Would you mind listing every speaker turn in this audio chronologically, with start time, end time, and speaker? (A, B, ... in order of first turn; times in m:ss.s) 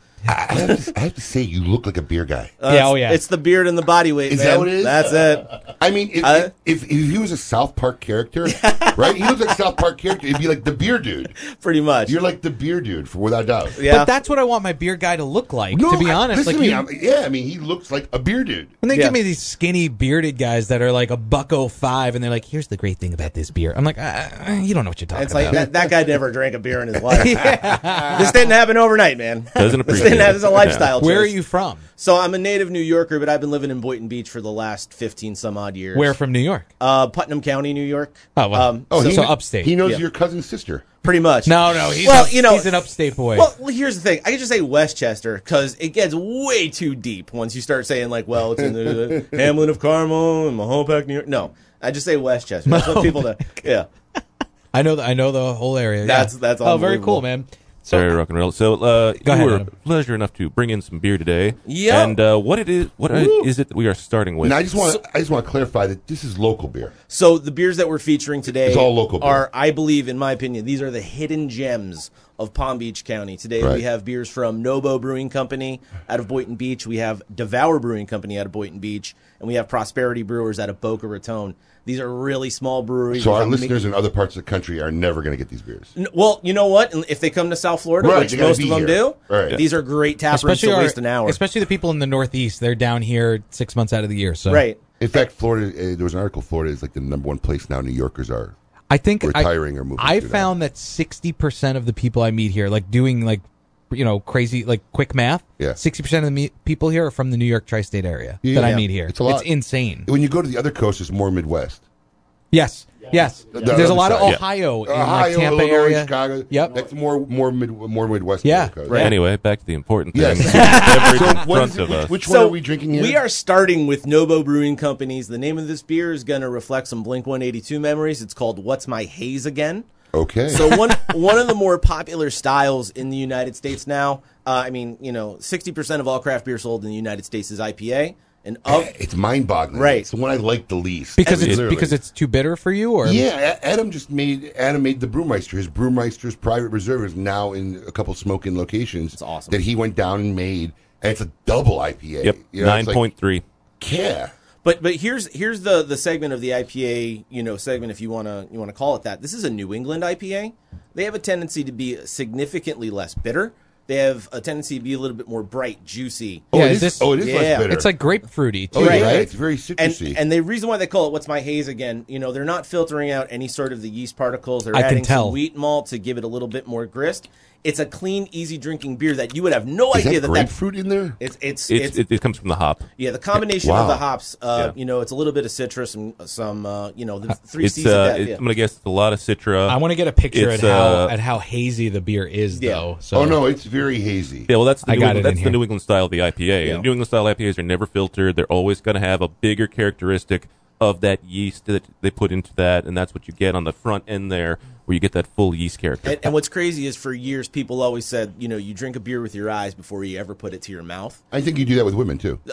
0:00.3-0:02.6 A
0:02.6-0:05.6 B
0:02.6-0:03.2 C
0:04.3-0:05.1 A
0:05.8-0:11.4 A
0:06.2-0:06.5 B
0:08.4-0:09.3 B
0:11.4-0:12.2 B
0:12.1-0:13.8 A
0:13.8-0:14.1 B
0:13.8-0:16.8 C
0:15.7-0:18.8 A
0:18.8-0:25.7 C
0:18.9-0:19.2 B
0:25.1-0:31.4 B
0:27.1-0:28.4 C
0:29.6-0:30.9 D
0:31.0-0:31.8 C
0:32.0-0:36.2 B
0:35.9-0:36.7 C
0:36.8-0:40.0 B
0:38.4-0:39.8 C
0:38.9-0:40.9 A
0:41.0-0:53.9 B
0:41.4-0:43.5 C
0:52.7-0:53.4 C
0:54.7-0:58.1 C
0:56.0-0:57.2 B
0:57.9-1:04.9 D
0:59.2-0:59.7 C
1:01.6-1:02.2 B
1:03.1-1:03.5 A
1:04.4-1:06.9 A
1:07.1-1:23.8 B
1:08.5-1:09.4 A
1:23.1-1:25.9 A
1:25.9-1:31.4 B
1:28.0-1:29.6 A
1:30.3-1:34.6 C
1:34.5-1:34.8 B
1:35.0-1:38.6 A
1:38.9-1:50.1 C
1:39.2-1:40.5 A
1:48.4-1:49.5 A
1:48.6-1:48.8 B
1:50.0-1:51.8 A
1:52.5-1:56.8 C
1:53.5-1:59.1 A
1:58.4-1:59.1 C
1:59.0-2:02.3 D
2:00.1-2:03.2 A
2:02.2-2:09.8 B
2:10.1-2:11.0 A
2:10.5-2:18.9 B
2:18.7-2:22.0 A
2:19.7-2:20.1 B
2:21.2-2:23.2 C
2:23.0-2:33.0 A
2:29.2-2:29.6 B
2:32.2-2:33.4 D
2:33.8-2:34.3 A
2:34.6-2:46.5 B
2:46.5-2:47.9 A
2:46.5-2:49.2 C
2:47.2-2:47.7 B
2:48.7-2:50.2 A
2:48.7-3:00.5 B
2:54.7-2:55.4 C
2:59.9-3:01.2 A
3:01.2-3:02.0 B
3:01.7-3:02.8 D
3:03.0-3:08.4 B
3:03.6-3:04.0 A
3:07.6-3:11.1 D
3:09.7-3:13.4 C
3:12.5-3:12.8 B
3:13.1-3:14.5 A
3:14.5-3:26.3 D
3:14.8-3:15.6 C
3:26.0-3:31.2 B
3:31.3-3:32.4 A